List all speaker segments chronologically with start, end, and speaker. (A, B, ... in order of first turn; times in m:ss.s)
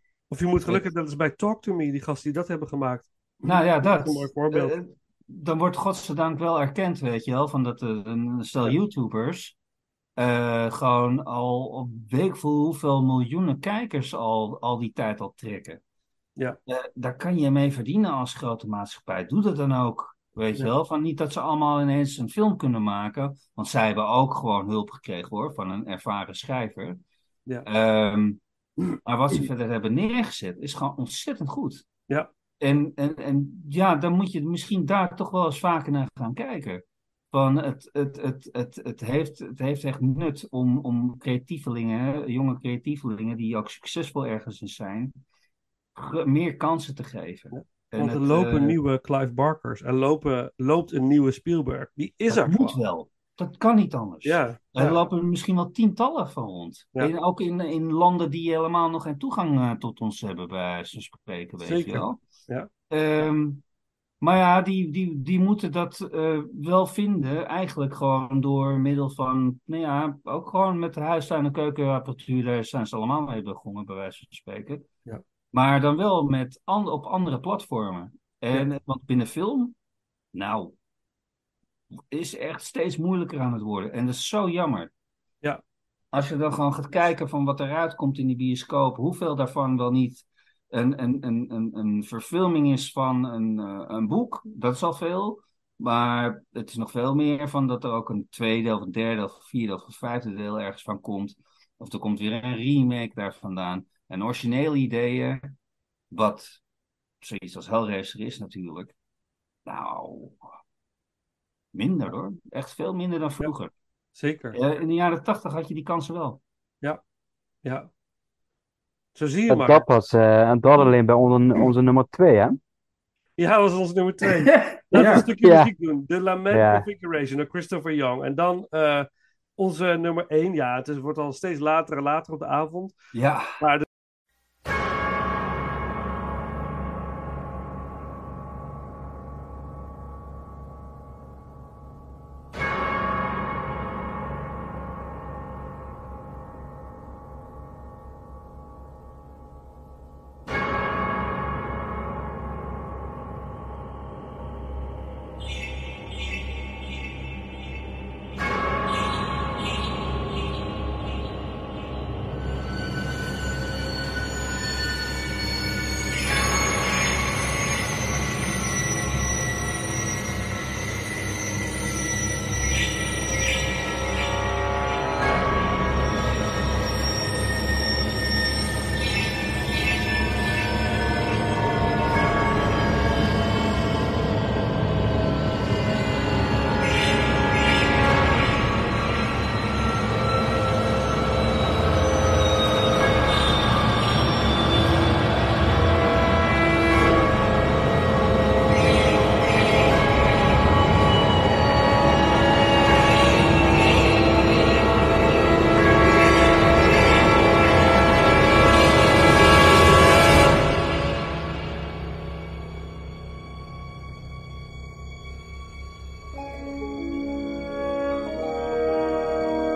0:00.3-0:04.8 A
0:03.4-0:09.5 B
0:10.2-0:15.8 B
0:16.7-0:27.0 B
0:27.6-0:28.4 B
0:29.0-0:31.8 B
0:32.6-0:45.2 B
0:46.0-0:48.8 B
0:47.5-0:52.8 A
0:52.3-1:02.2 B
0:54.2-0:55.0 A
1:01.6-1:02.7 A
1:02.9-1:03.6 B
1:04.2-1:14.9 B
1:15.5-1:19.7 B
1:20.3-1:20.7 B
1:22.1-1:24.9 B
1:26.1-1:45.5 B
1:46.1-1:46.6 B
1:47.2-1:48.9 B
1:49.6-1:50.4 B
1:51.7-1:53.7 B
1:54.2-1:54.6 A
1:54.5-1:56.4 B
1:57.6-1:57.9 A
1:59.1-1:59.8 A
1:59.5-2:02.6 C
2:03.4-2:12.9 A
2:04.5-2:05.2 B
2:05.1-2:05.7 C
2:06.5-2:06.9 C
2:13.1-2:13.6 B
2:13.6-2:13.8 A